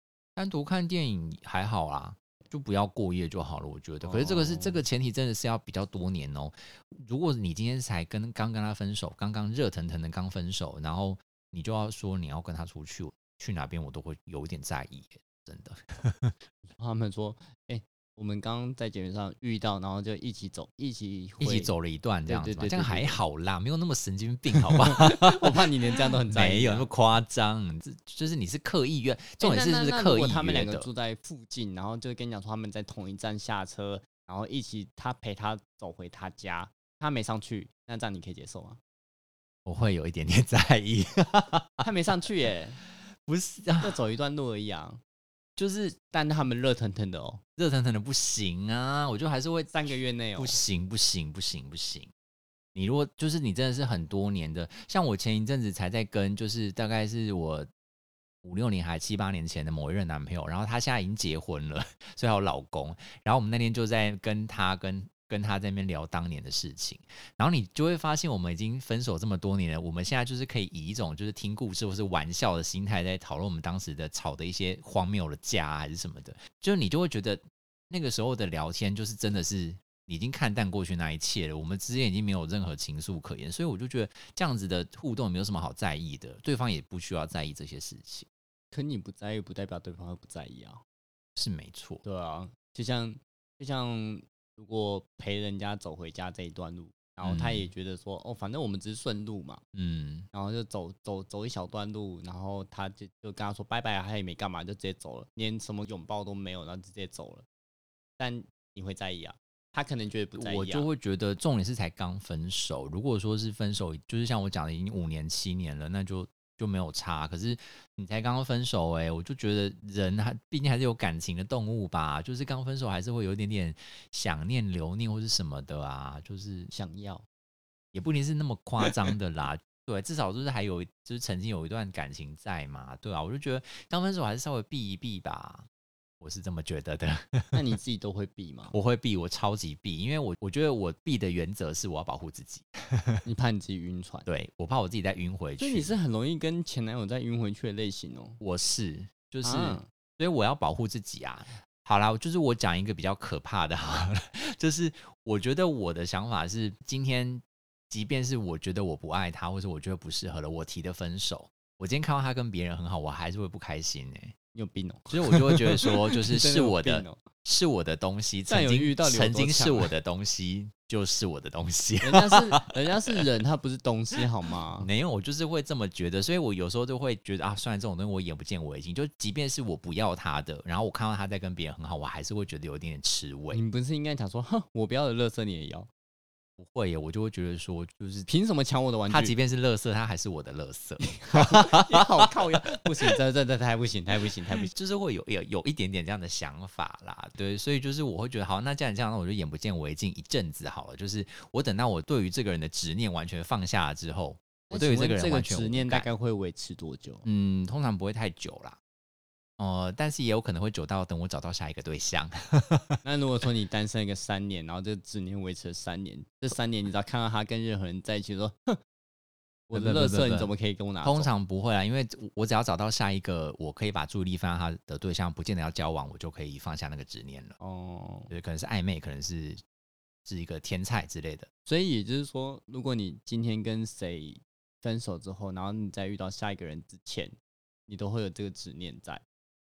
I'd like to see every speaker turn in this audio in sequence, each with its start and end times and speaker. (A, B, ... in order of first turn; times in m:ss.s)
0:00.4-0:16.4 A
0:04.0-0:04.8 B
0:16.8-0:21.7 B
0:21.4-0:25.7 A
0:22.2-0:23.2 B
0:24.6-0:26.9 B
0:26.3-0:30.9 A
0:29.4-0:38.8 B
0:39.6-0:41.8 A
0:41.8-0:42.8 B
0:42.8-0:44.0 A
0:43.8-0:45.0 B
0:45.6-0:46.0 A
0:46.1-0:47.4 B
0:47.6-0:52.1 A
0:49.7-0:50.6 B
0:52.7-0:57.7 A
0:58.4-1:28.3 A
1:28.7-1:30.8 B
1:31.4-1:32.0 A
1:32.0-1:39.6 B
1:37.2-1:37.7 A
1:39.7-1:40.3 A
1:40.3-1:47.4 B
1:48.2-1:50.9 B
1:50.4-2:06.7 A
2:06.7-2:07.2 B
2:07.9-2:15.7 A
2:16.2-2:17.6 A
2:17.5-2:18.8 B
2:18.7-2:23.2 A
2:23.2-2:24.3 B
2:24.3-2:25.9 A
2:25.6-2:28.4 B
2:28.4-2:44.3 A
2:29.4-2:29.9 B
2:44.5-2:47.2 B
2:45.1-2:53.2 A
2:48.5-2:49.9 B
2:52.0-2:54.9 B
2:54.8-3:03.6 A
3:03.5-3:05.9 B
3:06.6-3:08.3 A
3:08.3-3:09.3 B
3:09.1-3:12.0 A
3:11.0-3:14.7 B
3:14.6-3:26.1 A
3:24.7-3:27.2 B
3:27.2-3:28.8 A
3:29.6-3:33.0 A
3:33.0-3:38.8 B
3:39.7-3:41.3 B
3:39.7-3:47.6 A
3:47.6-3:48.3 B
3:48.3-3:49.6 A
3:50.2-3:51.5 A
3:51.6-3:57.3 B
3:57.9-3:59.2 B